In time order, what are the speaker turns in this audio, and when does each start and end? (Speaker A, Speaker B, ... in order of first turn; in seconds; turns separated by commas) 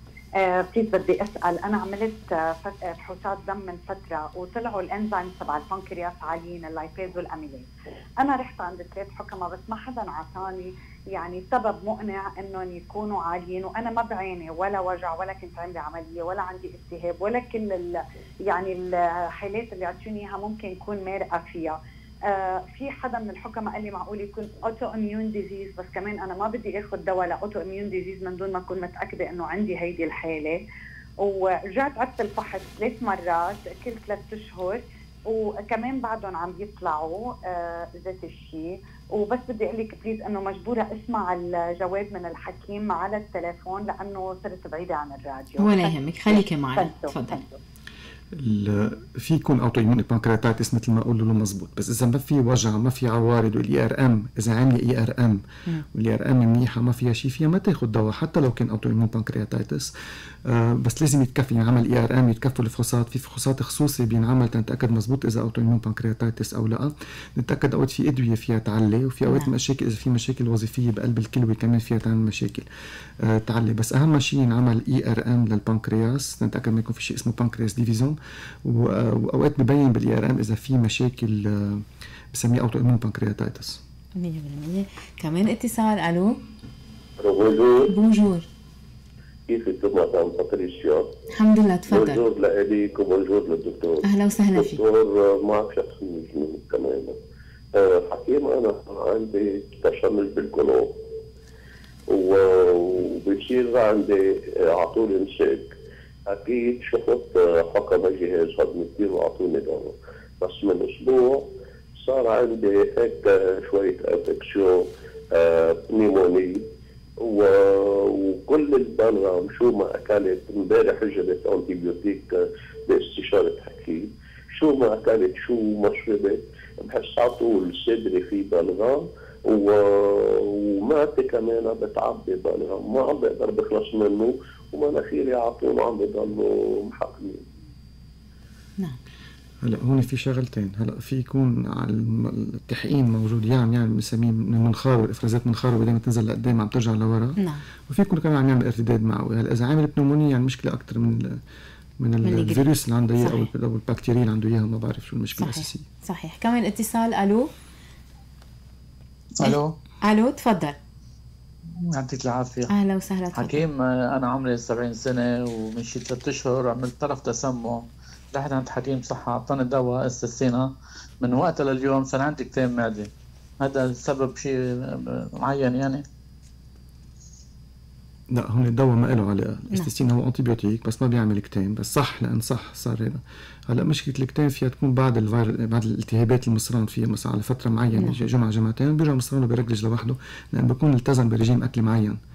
Speaker A: 0.4-21.8, Speaker A: 22.3-30.6, Speaker A: 31.2-47.6, Speaker B: 45.6-47.4, Speaker C: 48.3-59.9, Speaker C: 60.4-72.7, Speaker B: 69.2-69.5, Speaker C: 73.2-83.8, Speaker B: 84.2-86.4, Speaker D: 87.2-87.9, Speaker B: 87.9-88.5, Speaker D: 89.5-91.1, Speaker B: 91.3-92.2, Speaker D: 91.9-97.2, Speaker B: 94.0-94.8, Speaker D: 97.7-101.0, Speaker D: 102.1-105.7, Speaker D: 106.3-111.5, Speaker D: 112.0-116.7, Speaker D: 117.2-122.3, Speaker D: 122.9-137.5, Speaker C: 139.6-151.4, Speaker B: 147.4-147.6, Speaker C: 152.0-155.8, Speaker B: 152.2-152.7, Speaker B: 153.2-153.5, Speaker B: 155.4-157.5, Speaker E: 159.4-159.7, Speaker B: 159.4-160.8, Speaker E: 161.9-162.7, Speaker B: 162.7-163.6, Speaker E: 163.3-170.7, Speaker E: 171.2-176.0, Speaker C: 178.3-192.2, Speaker B: 187.9-188.2